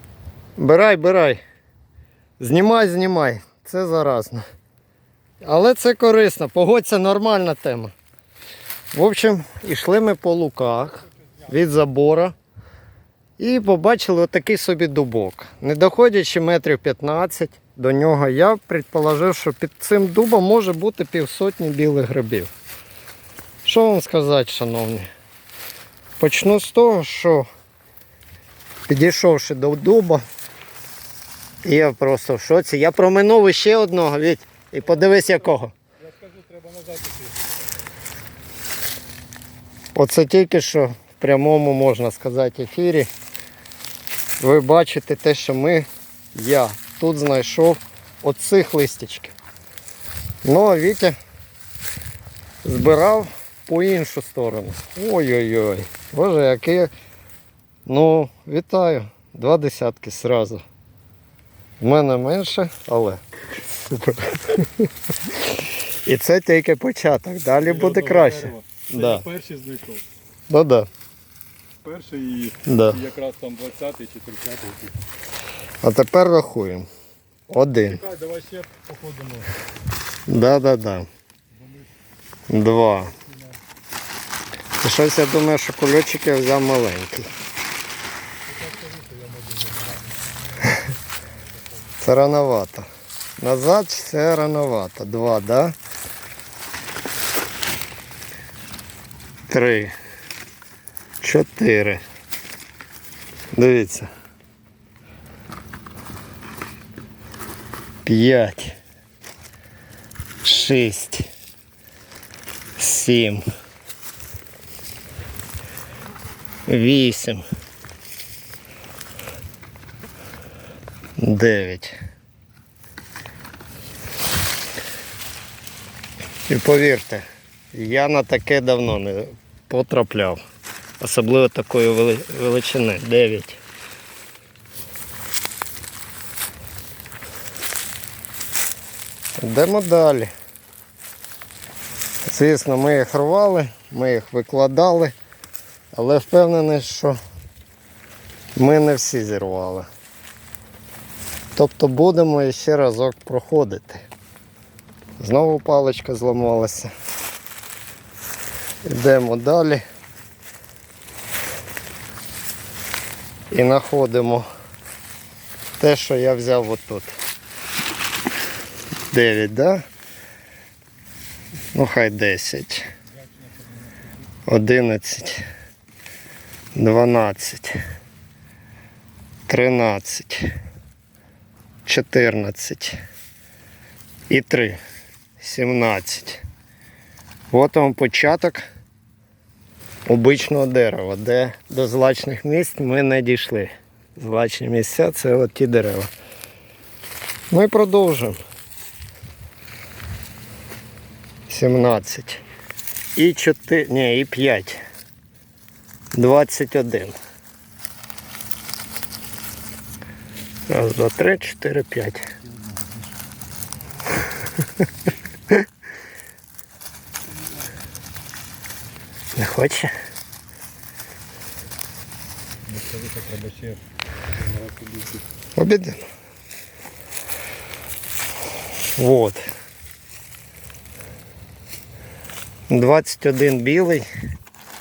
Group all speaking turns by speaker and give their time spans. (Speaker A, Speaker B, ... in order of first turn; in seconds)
Speaker A: 0.6-1.4, 2.4-4.4, 5.4-7.9, 8.9-12.3, 13.4-22.5, 23.6-25.1, 26.2-27.5, 28.9-30.2, 31.6-35.7, 40.0-43.1, 44.4-49.4, 50.4-51.2, 52.6-56.9, 57.9-60.6, 61.8-64.9, 65.5-69.2, 70.5-70.9, 72.7-73.0, 75.8-76.9, 77.5-78.0, 80.3-81.1, 82.5-83.1, 84.8-87.3, 92.0-95.8, 99.5-99.9, 101.2-102.0, 103.5-104.1, 108.0-108.8, 110.4-111.3, 112.8-113.4, 116.7-117.4, 121.2-121.9, 126.5-130.4, 131.0-133.6, 139.4-140.3, 142.2-145.2, 145.9-147.2, 148.6-149.9, 151.6-154.0, 155.2-156.9, 158.9-159.8, 163.5-164.5, 165.8-167.1, 169.1-169.8, 171.7-172.8, 174.5-175.4, 176.8-177.8, 179.5-180.5, 181.8-183.0, 184.3-184.8, 185.4-186.4, 187.5-188.7, 190.1-196.1, 197.5-198.4, 201.5-202.4, 203.2-204.8, 206.1-207.2, 210.7-212.2, 219.4-219.9, 225.6-226.0, 229.0-229.4, 232.7-234.1
Speaker B: 34.9-37.4, 67.6-70.0, 71.8-75.0, 77.9-79.5, 81.6-81.9, 83.2-83.5, 88.5-90.2, 91.5-92.0, 173.1-174.2, 212.7-213.0, 222.7-223.8, 224.4-225.2